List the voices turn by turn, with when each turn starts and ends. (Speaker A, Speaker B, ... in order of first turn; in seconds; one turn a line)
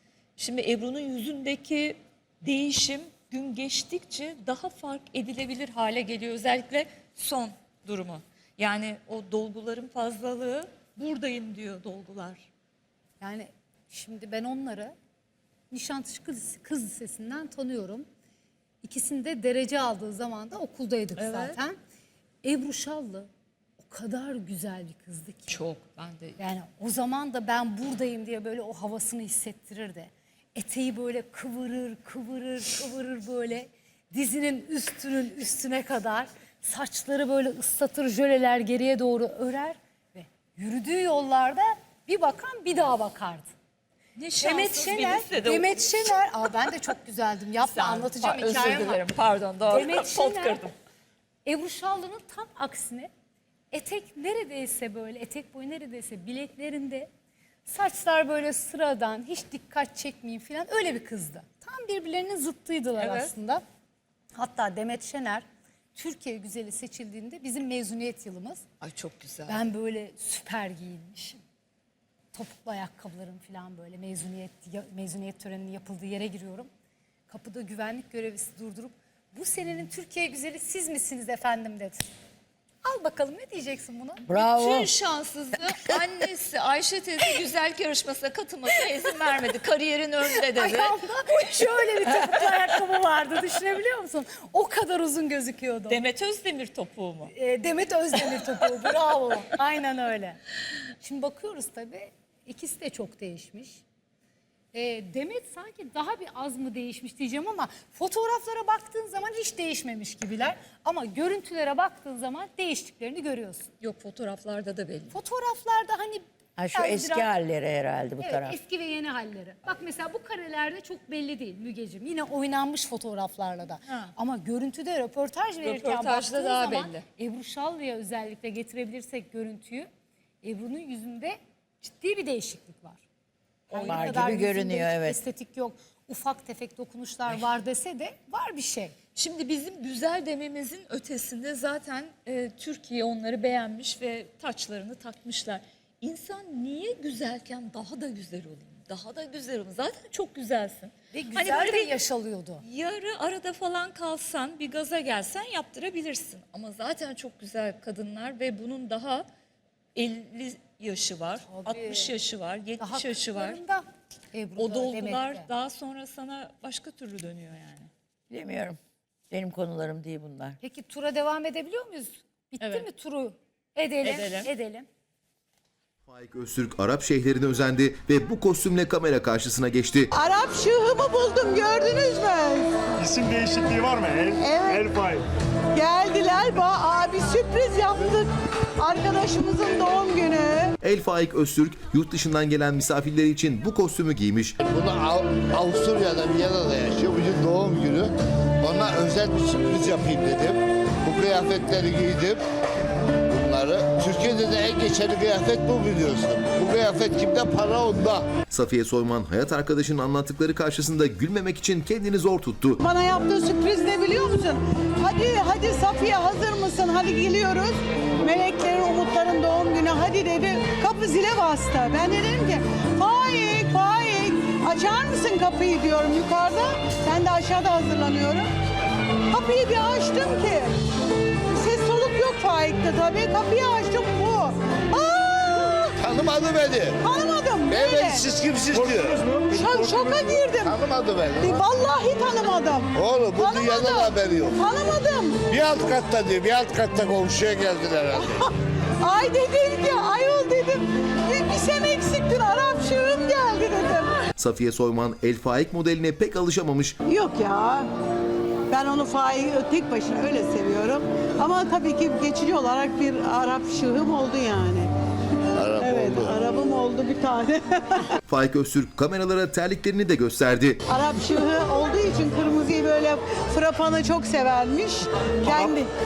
Speaker A: 0.4-12.5
Speaker B: 13.2-14.9
Speaker B: 15.7-18.1
Speaker B: 18.8-21.8
Speaker A: 21.1-21.6
Speaker B: 22.4-23.3
Speaker B: 23.8-25.6
Speaker A: 25.5-26.4
Speaker B: 26.4-43.5
Speaker A: 44.1-46.1
Speaker B: 44.4-49.1
Speaker A: 47.6-50.7
Speaker B: 49.6-50.7
Speaker B: 51.4-53.1
Speaker B: 53.7-57.1
Speaker B: 57.6-63.6
Speaker A: 63.0-63.3
Speaker B: 64.3-68.7
Speaker A: 68.8-69.6
Speaker B: 69.5-71.4
Speaker B: 72.3-76.7
Speaker B: 77.3-82.1
Speaker B: 82.8-84.3
Speaker C: 84.3-84.9
Speaker A: 84.3-91.0
Speaker B: 90.5-96.0
Speaker A: 95.9-97.3
Speaker B: 97.3-100.4
Speaker B: 101.0-103.8
Speaker B: 104.7-113.7
Speaker A: 113.8-115.2
Speaker B: 115.1-117.4
Speaker C: 116.6-118.6
Speaker B: 118.2-129.9
Speaker A: 123.9-124.1
Speaker A: 125.6-127.0
Speaker B: 130.4-133.0
Speaker B: 133.7-138.9
Speaker C: 133.8-135.2
Speaker A: 139.1-151.9
Speaker B: 151.1-152.6
Speaker A: 152.6-159.2
Speaker A: 159.9-163.6
Speaker B: 161.5-162.1
Speaker B: 162.8-165.5
Speaker A: 164.6-167.9
Speaker C: 168.3-168.8
Speaker C: 169.3-170.6
Speaker B: 170.6-174.9
Speaker A: 172.6-172.8
Speaker A: 174.0-174.5
Speaker D: 176.1-180.1
Speaker E: 180.1-182.7
Speaker F: 183.0-185.2
Speaker E: 184.4-184.9
Speaker E: 185.7-190.7
Speaker D: 190.8-194.6
Speaker G: 194.6-202.4
Speaker G: 203.3-208.2
Speaker D: 208.5-212.8
Speaker E: 212.8-228.4
Speaker E: 229.3-230.7
Speaker E: 231.5-236.0
Speaker G: 236.0-237.0
Speaker E: 237.0-238.3
Speaker G: 237.7-239.3
Speaker E: 239.4-240.8
Speaker G: 240.6-241.6
Speaker E: 241.4-245.4
Speaker G: 242.9-244.6
Speaker G: 245.5-248.3
Speaker E: 248.1-254.1
Speaker D: 254.4-256.9
Speaker E: 257.1-257.8
Speaker E: 258.7-264.9
Speaker G: 265.6-266.4
Speaker E: 265.8-268.0
Speaker D: 268.3-270.8
Speaker E: 270.9-275.9